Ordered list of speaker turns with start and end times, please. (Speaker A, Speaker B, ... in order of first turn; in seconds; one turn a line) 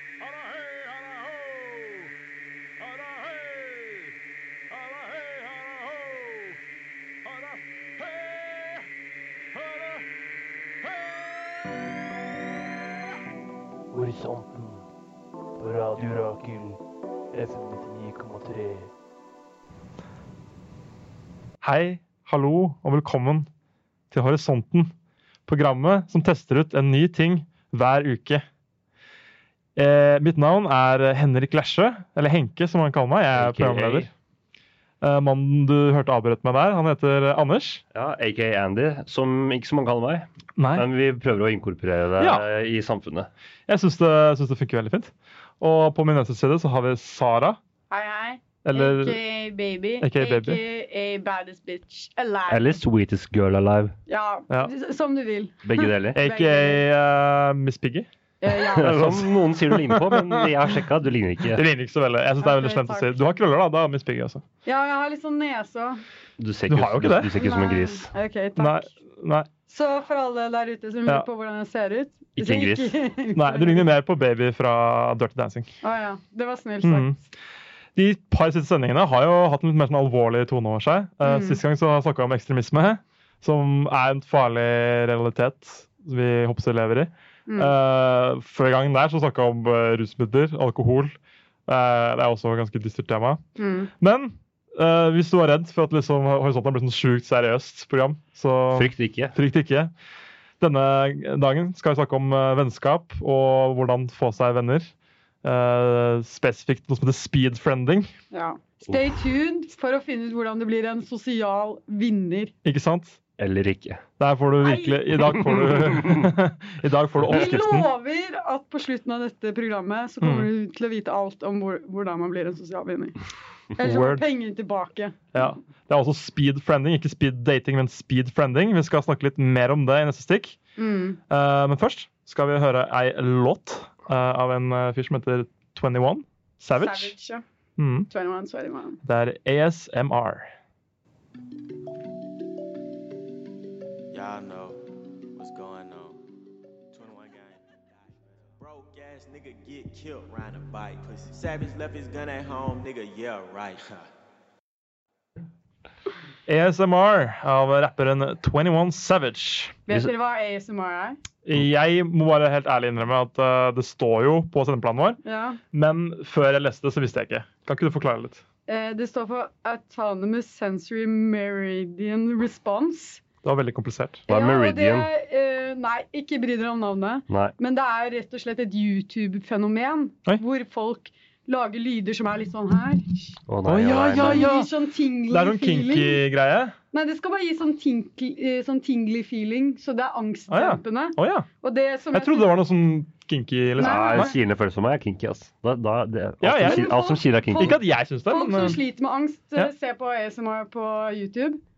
Speaker A: 0.2-2.1
Speaker A: 2.8-4.1
Speaker A: 4.7-6.6
Speaker A: 7.2-8.9
Speaker A: 9.5-10.0
Speaker A: 10.8-11.6
Speaker B: 13.9-14.8
Speaker B: 15.6-16.8
Speaker B: 17.3-18.9
Speaker A: 21.6-23.5
Speaker A: 24.1-24.9
Speaker A: 25.5-28.4
Speaker A: 29.8-34.1
Speaker C: 33.3-34.1
Speaker A: 35.0-37.8
Speaker C: 37.9-43.3
Speaker A: 40.6-40.8
Speaker A: 42.2-42.4
Speaker A: 43.7-47.6
Speaker D: 47.9-52.7
Speaker A: 48.6-49.2
Speaker A: 50.0-50.6
Speaker C: 52.5-53.9
Speaker D: 54.1-56.8
Speaker C: 55.6-56.2
Speaker A: 56.1-58.1
Speaker D: 58.4-59.2
Speaker C: 58.7-61.6
Speaker A: 58.7-60.5
Speaker A: 61.5-64.4
Speaker D: 62.4-63.3
Speaker D: 64.6-66.0
Speaker C: 66.4-68.1
Speaker A: 66.7-67.3
Speaker D: 67.4-68.9
Speaker A: 68.6-69.5
Speaker D: 69.7-73.8
Speaker C: 72.4-73.0
Speaker A: 73.3-75.7
Speaker D: 75.8-77.2
Speaker A: 76.8-77.2
Speaker A: 78.0-91.1
Speaker D: 81.2-81.6
Speaker D: 87.5-87.7
Speaker A: 91.7-93.4
Speaker D: 93.6-93.9
Speaker A: 94.0-99.9
Speaker C: 98.7-99.3
Speaker A: 100.6-104.9
Speaker A: 105.4-108.1
Speaker D: 108.3-112.5
Speaker A: 112.6-113.2
Speaker C: 113.4-114.0
Speaker A: 114.2-117.9
Speaker D: 114.6-115.0
Speaker C: 115.5-116.3
Speaker D: 117.3-123.2
Speaker A: 120.2-120.5
Speaker D: 123.8-125.5
Speaker A: 123.8-124.2
Speaker A: 125.3-130.6
Speaker D: 130.8-131.2
Speaker A: 131.3-137.1
Speaker D: 136.7-137.4
Speaker A: 137.8-138.1
Speaker D: 138.1-139.0
Speaker A: 139.1-140.5
Speaker E: 144.1-144.8
Speaker E: 145.3-146.2
Speaker E: 146.9-154.0
Speaker A: 156.5-159.8
Speaker D: 159.9-161.2
Speaker A: 161.4-165.2
Speaker D: 165.2-165.6
Speaker A: 165.7-168.4
Speaker D: 168.7-173.2
Speaker A: 173.4-174.2
Speaker C: 174.3-175.1
Speaker D: 174.3-186.2
Speaker C: 177.3-177.5
Speaker C: 183.5-184.5
Speaker A: 183.7-184.7
Speaker A: 185.3-186.7
Speaker D: 186.9-192.6
Speaker A: 190.5-191.5
Speaker A: 192.1-194.3
Speaker D: 193.8-194.3
Speaker C: 193.8-197.8
Speaker A: 196.4-197.0
Speaker D: 196.6-201.6
Speaker A: 197.6-198.8